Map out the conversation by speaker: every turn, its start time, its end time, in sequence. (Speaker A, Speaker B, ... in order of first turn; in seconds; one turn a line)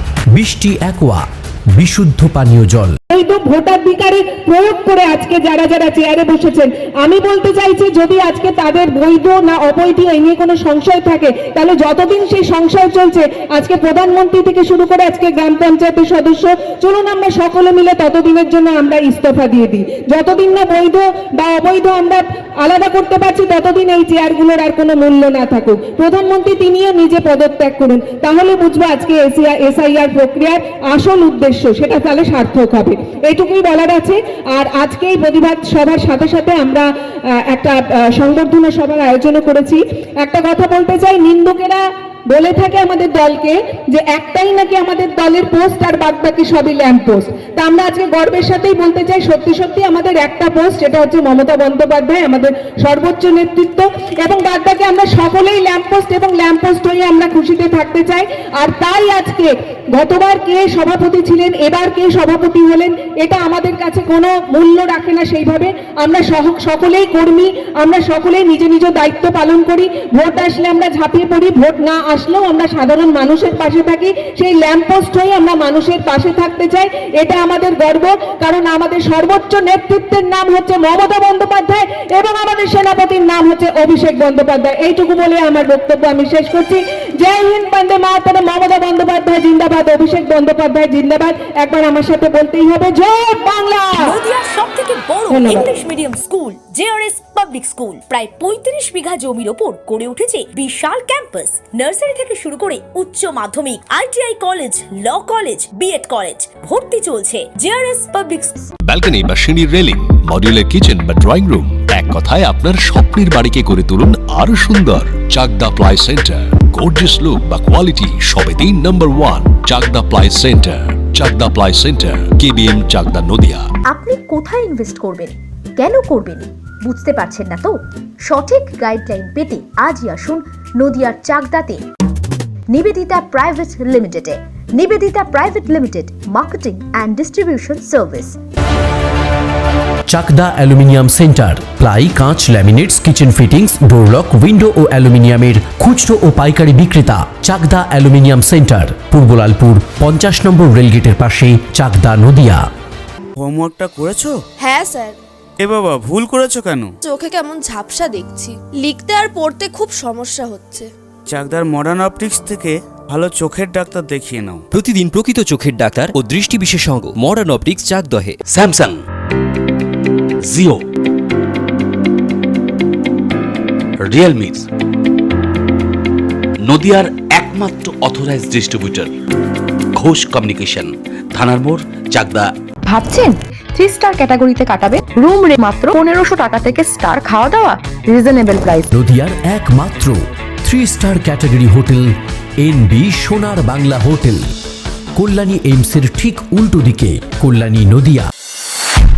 Speaker A: 0.3-3.0
Speaker B: 3.1-94.1
Speaker C: 94.0-108.7
Speaker B: 95.3-95.7
Speaker D: 108.8-123.6
Speaker E: 123.9-131.8
Speaker E: 132.7-138.3
Speaker A: 140.1-152.6
Speaker F: 153.4-154.4
Speaker G: 154.6-155.2
Speaker F: 155.6-156.9
Speaker G: 157.0-160.9
Speaker F: 161.3-164.6
Speaker H: 164.7-168.4
Speaker I: 168.5-169.0
Speaker I: 170.5-170.8
Speaker I: 174.0-174.6
Speaker I: 176.6-179.1
Speaker I: 179.9-182.5
Speaker J: 182.9-188.9
Speaker A: 188.9-194.4
Speaker A: 195.1-198.3